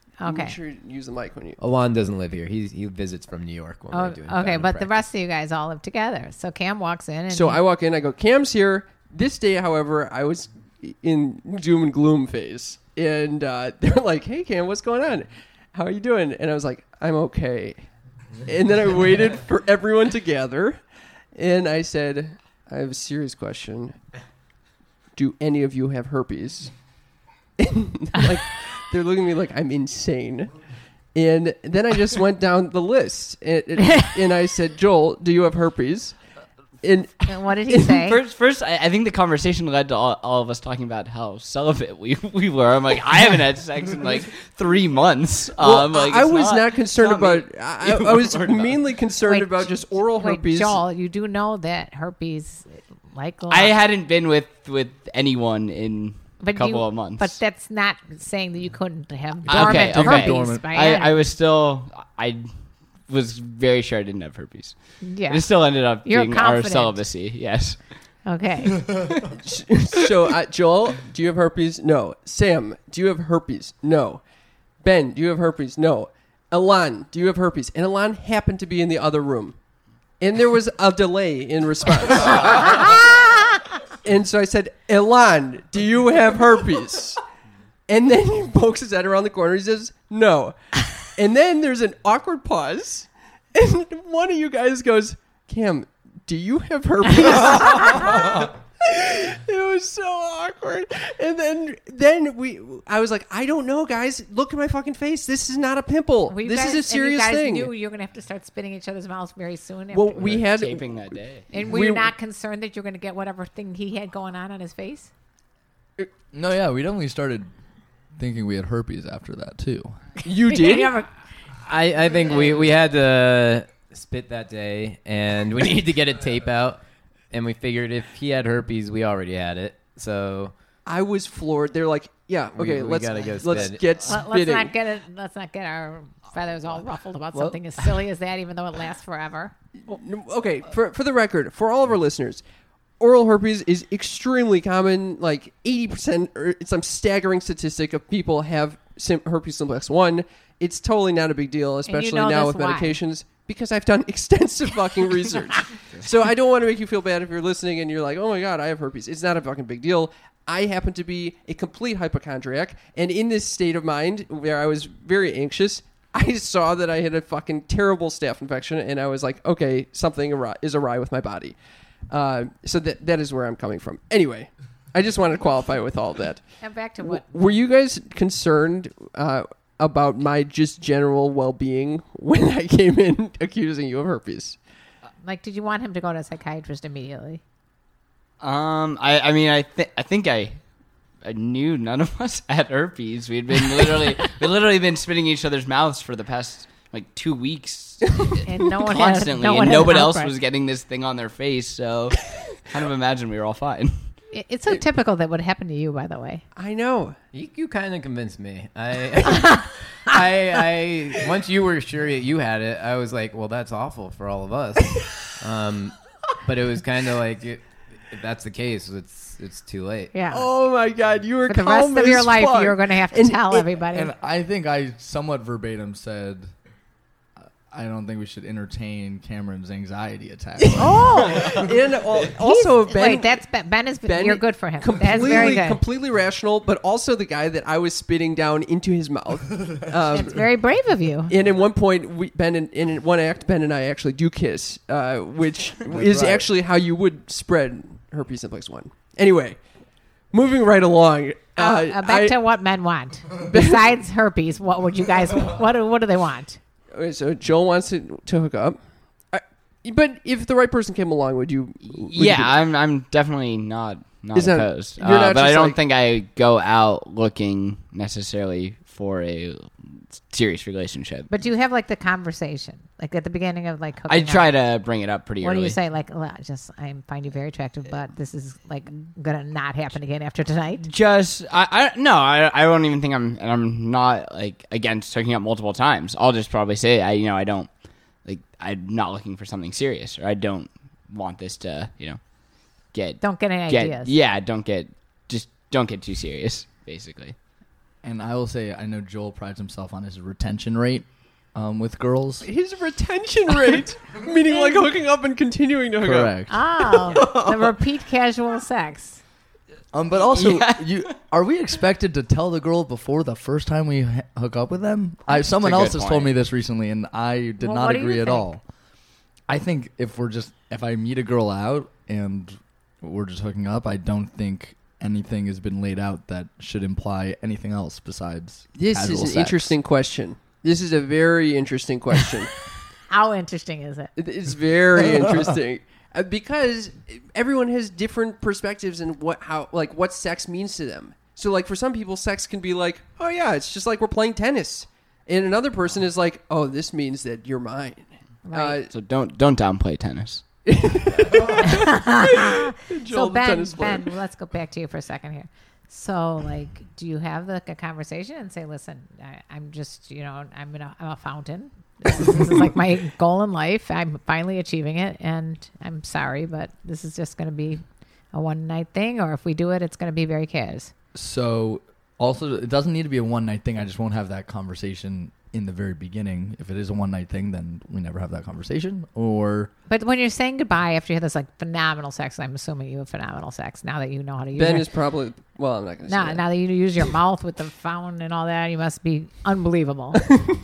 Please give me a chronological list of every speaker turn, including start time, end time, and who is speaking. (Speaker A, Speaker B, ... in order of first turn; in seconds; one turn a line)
Speaker A: 0.2-0.6
Speaker B: 0.2-1.6
Speaker C: 1.6-5.0
Speaker A: 3.9-7.6
Speaker B: 7.3-17.8
Speaker B: 18.4-20.8
Speaker B: 21.3-24.0
Speaker B: 25.1-26.7
Speaker B: 27.6-30.5
Speaker B: 31.1-36.1
Speaker B: 36.8-37.9
Speaker A: 37.2-38.2
Speaker D: 37.9-48.8
Speaker B: 45.6-50.8
Speaker A: 49.2-53.7
Speaker D: 53.5-57.4
Speaker A: 56.4-61.1
Speaker E: 59.5-60.6
Speaker D: 59.5-62.5
Speaker D: 63.1-67.8
Speaker A: 65.0-67.0
Speaker A: 68.2-68.8
Speaker B: 69.3-74.2
Speaker B: 74.8-79.5
Speaker B: 80.2-87.2
Speaker B: 87.9-107.7
Speaker A: 106.3-110.3
Speaker B: 109.9-112.1
Speaker D: 110.2-111.5
Speaker A: 111.5-115.1
Speaker E: 116.3-117.5
Speaker E: 118.2-120.0
Speaker B: 120.2-121.0
Speaker A: 120.5-121.1
Speaker C: 121.6-130.5
Speaker B: 130.8-134.7
Speaker C: 132.6-133.8
Speaker A: 134.0-139.5
Speaker B: 139.9-142.4
Speaker B: 143.0-171.6
Speaker A: 151.9-152.9
Speaker B: 172.1-184.6
Speaker A: 176.6-177.3
Speaker A: 185.2-187.4
Speaker D: 188.4-190.6
Speaker D: 191.2-204.0
Speaker A: 198.4-200.3
Speaker A: 204.3-206.4
Speaker B: 206.5-207.2
Speaker C: 207.3-220.1
Speaker A: 220.1-220.4
Speaker B: 220.3-223.7
Speaker A: 221.5-224.1
Speaker E: 223.9-226.5
Speaker E: 227.6-231.0
Speaker B: 230.6-233.4
Speaker A: 230.8-231.6
Speaker A: 232.4-235.8
Speaker B: 234.0-240.5
Speaker A: 240.1-241.3
Speaker B: 241.3-249.6
Speaker E: 245.9-246.5
Speaker B: 250.3-252.3
Speaker A: 251.6-256.6
Speaker B: 253.4-253.8
Speaker B: 256.9-262.5
Speaker D: 261.9-271.3
Speaker B: 264.3-265.8
Speaker A: 271.3-274.6
Speaker D: 274.1-275.8
Speaker A: 275.4-280.9
Speaker D: 280.8-297.3
Speaker A: 293.2-294.1
Speaker E: 298.0-302.5
Speaker B: 302.4-306.4
Speaker E: 306.0-306.6
Speaker A: 306.5-309.2
Speaker B: 307.1-307.4
Speaker E: 309.9-318.6
Speaker D: 310.2-311.1
Speaker D: 315.3-316.3
Speaker A: 317.6-318.5
Speaker E: 319.5-329.7
Speaker B: 328.7-332.6
Speaker A: 333.1-334.1
Speaker B: 334.1-348.9
Speaker A: 348.4-348.8
Speaker D: 348.9-350.4
Speaker B: 350.7-354.1
Speaker A: 351.6-370.9
Speaker E: 371.1-379.7
Speaker A: 379.9-384.9
Speaker B: 384.5-386.4
Speaker A: 386.1-390.4